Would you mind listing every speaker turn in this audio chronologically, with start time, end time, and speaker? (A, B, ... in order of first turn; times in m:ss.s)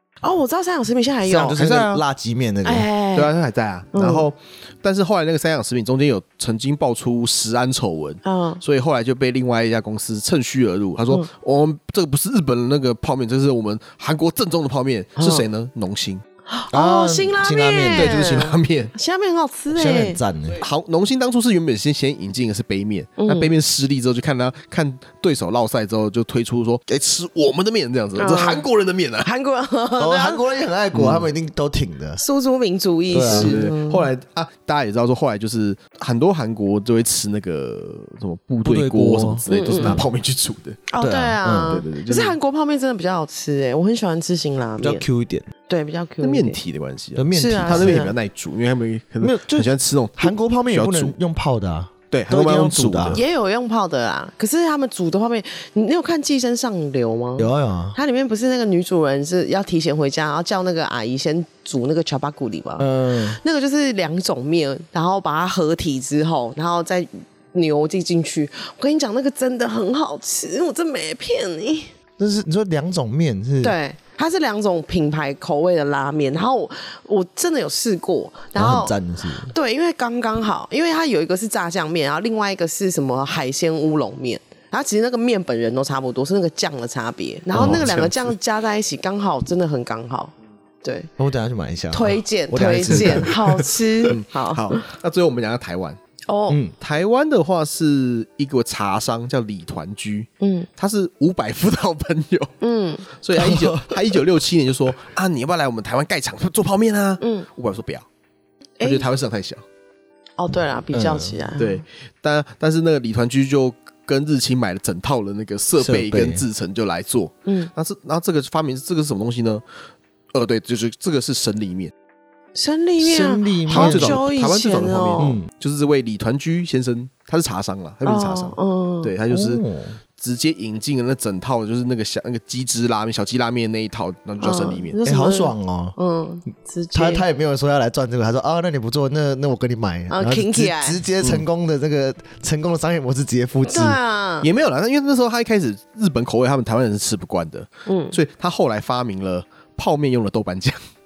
0:00.2-0:01.6 A
0:01.2-0:02.9 B
0:01.5-0:02.0 C
0:02.6-0:03.3 A
0:03.1-0:16.2 C
0:03.9-0:04.3 A
0:08.2-0:08.6 A
0:15.2-0:15.4 A
0:16.5-0:20.2 A
0:16.7-0:18.2 B
0:17.9-0:18.9 C
0:19.7-0:20.6 B
0:20.6-0:29.3 C
0:23.2-0:23.5 A
0:28.2-0:28.6 A
0:29.2-0:30.4 A
0:30.0-0:32.2 B
0:30.9-0:31.3 C
0:32.2-0:34.1 A
0:33.1-0:33.7 B
0:33.2-0:40.8 C
0:38.6-0:40.0 B
0:39.5-0:40.0 A
0:40.9-0:45.0 A
0:41.0-0:41.8 B
0:41.6-0:42.4 C
0:44.8-0:45.5 B
0:45.7-0:46.6 A
0:46.2-0:51.1 C
0:47.2-0:48.1 B
0:47.3-0:48.1 A
0:49.2-0:53.2 B
0:52.1-0:53.2 C
0:53.1-1:11.9 A
0:57.4-0:58.0 B
1:02.8-1:03.4 B
1:12.2-1:13.7 B
1:13.6-1:30.3 A
1:18.5-1:19.5 B
1:27.5-1:28.3 C
1:27.5-1:27.9 B
1:30.8-1:31.1 A
1:31.2-1:33.6 B
1:31.9-1:34.8 A
1:32.9-1:33.3 C
1:34.1-1:36.0 C
1:36.3-1:36.6 A
1:36.5-1:36.7 B
1:36.8-1:42.5 C
1:40.4-1:40.7 A
1:42.6-1:43.1 A
1:43.1-1:48.0 C
1:43.3-1:43.9 B
1:47.2-1:47.5 A
1:48.8-1:49.0 A
1:48.8-1:49.6 C
1:50.4-1:51.8 A
1:50.9-1:51.4 B
1:51.6-1:59.6 C
1:55.8-1:56.4 B
1:57.4-1:57.7 A
2:00.3-2:01.9 C
2:02.5-2:05.4 A
2:03.0-2:04.2 B
2:03.7-2:09.6 C
2:05.2-2:05.5 B
2:08.0-2:09.1 A
2:09.3-2:10.0 B
2:10.2-2:15.0 C
2:14.4-2:17.2 A
2:15.0-2:15.9 B
2:16.9-2:24.0 B
2:20.1-2:21.0 A
2:23.7-2:24.5 A
2:24.4-2:30.8 C
2:27.9-2:28.2 A